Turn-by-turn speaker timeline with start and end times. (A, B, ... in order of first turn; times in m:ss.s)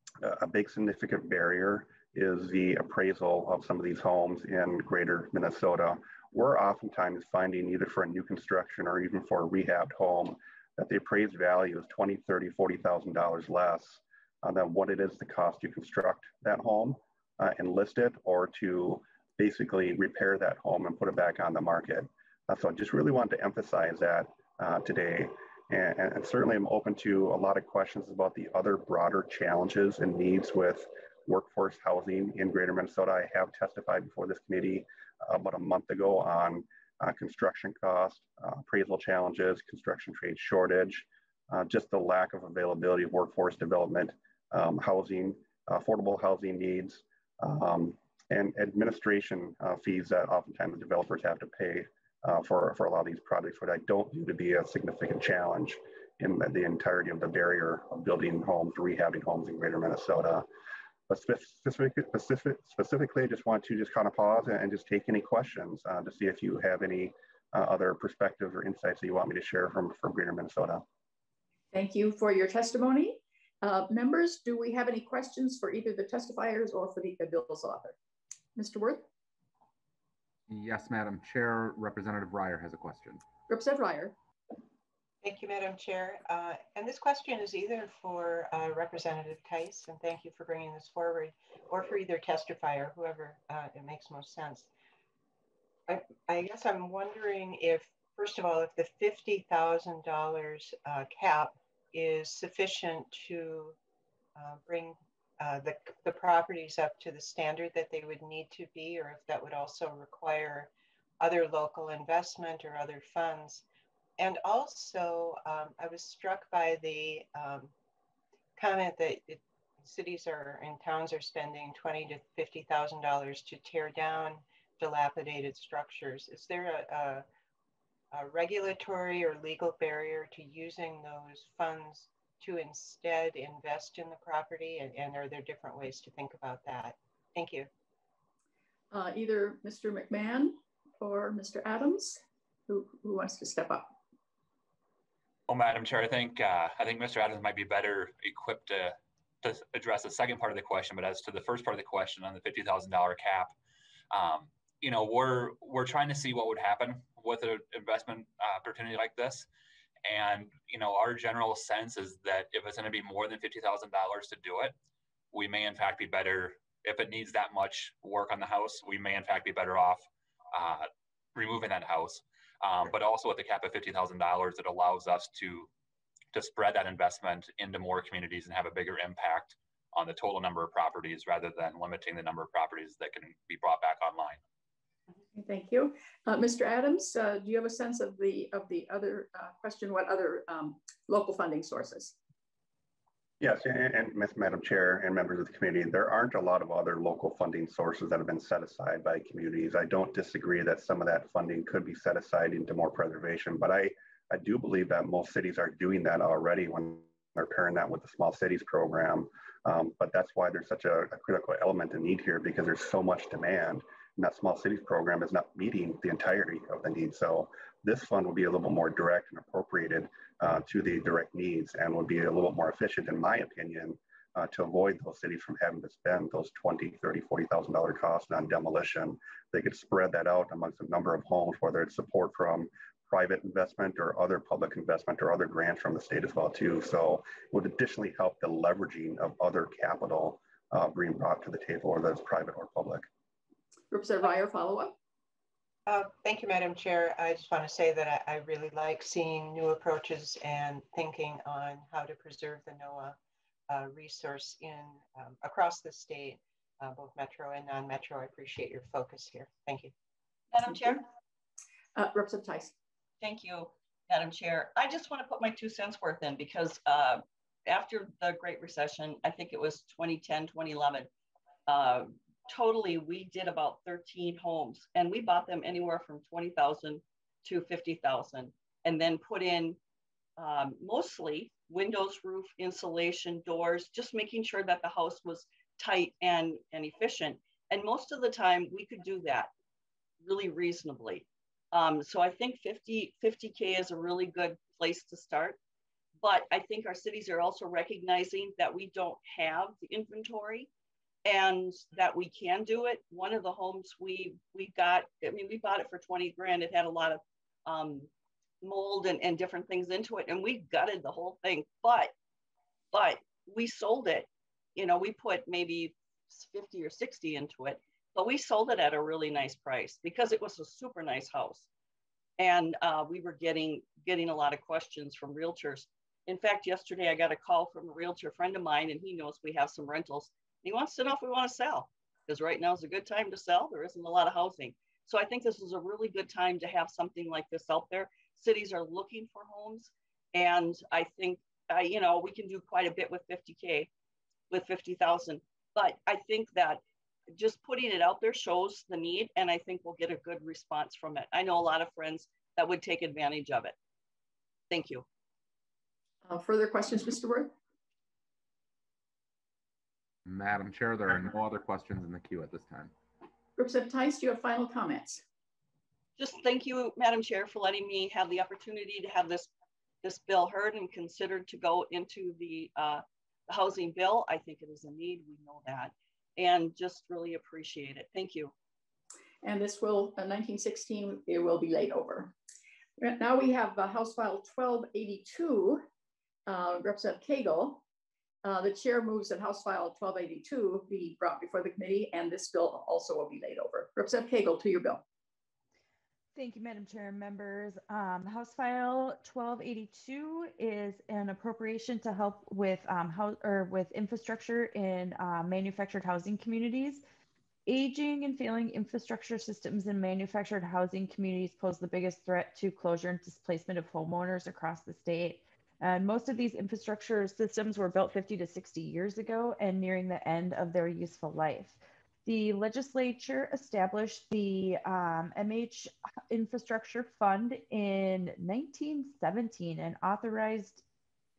0:00.2-1:00.5 A
1:01.1-1:10.8 A
1:11.7-1:18.0 B
1:18.6-1:19.0 B
1:20.5-1:23.2 C
1:23.5-1:24.2 B
1:25.2-1:34.7 D
1:35.9-1:43.8 D
1:44.4-1:53.6 D
1:54.2-1:57.7 D
1:58.6-2:07.3 D
2:08.1-2:17.7 D
2:18.9-2:23.9 B
2:25.5-2:33.6 E
2:34.1-2:39.5 E
2:40.0-2:44.8 E
2:45.3-2:55.7 E
2:56.3-3:04.4 E
3:05.4-3:12.2 B
3:13.4-4:03.1 A
4:03.9-4:05.0 B
4:05.9-4:13.2 D
4:13.7-4:19.9 D
4:20.5-4:21.0 F
4:22.0-4:22.7 B
4:23.2-4:31.1 F
4:31.7-4:39.8 F
4:40.4-4:49.5 F
4:50.2-4:55.6 F
4:56.2-5:00.7 F
5:01.2-5:08.1 F
5:08.6-5:12.1 F
5:12.9-5:21.7 F
5:22.4-5:43.9 F
5:44.5-5:46.8 F
5:47.3-5:53.8 F
5:54.7-5:55.0 F
5:56.3-5:57.5 B
6:00.3-6:02.9 C
6:03.6-6:05.2 B
6:06.2-6:09.5 F
6:10.0-6:18.5 F
6:19.4-6:22.3 B
6:23.0-6:25.8 B
6:26.5-6:27.8 B
6:28.4-6:35.0 B
6:36.4-6:47.0 G
6:47.7-7:10.8 G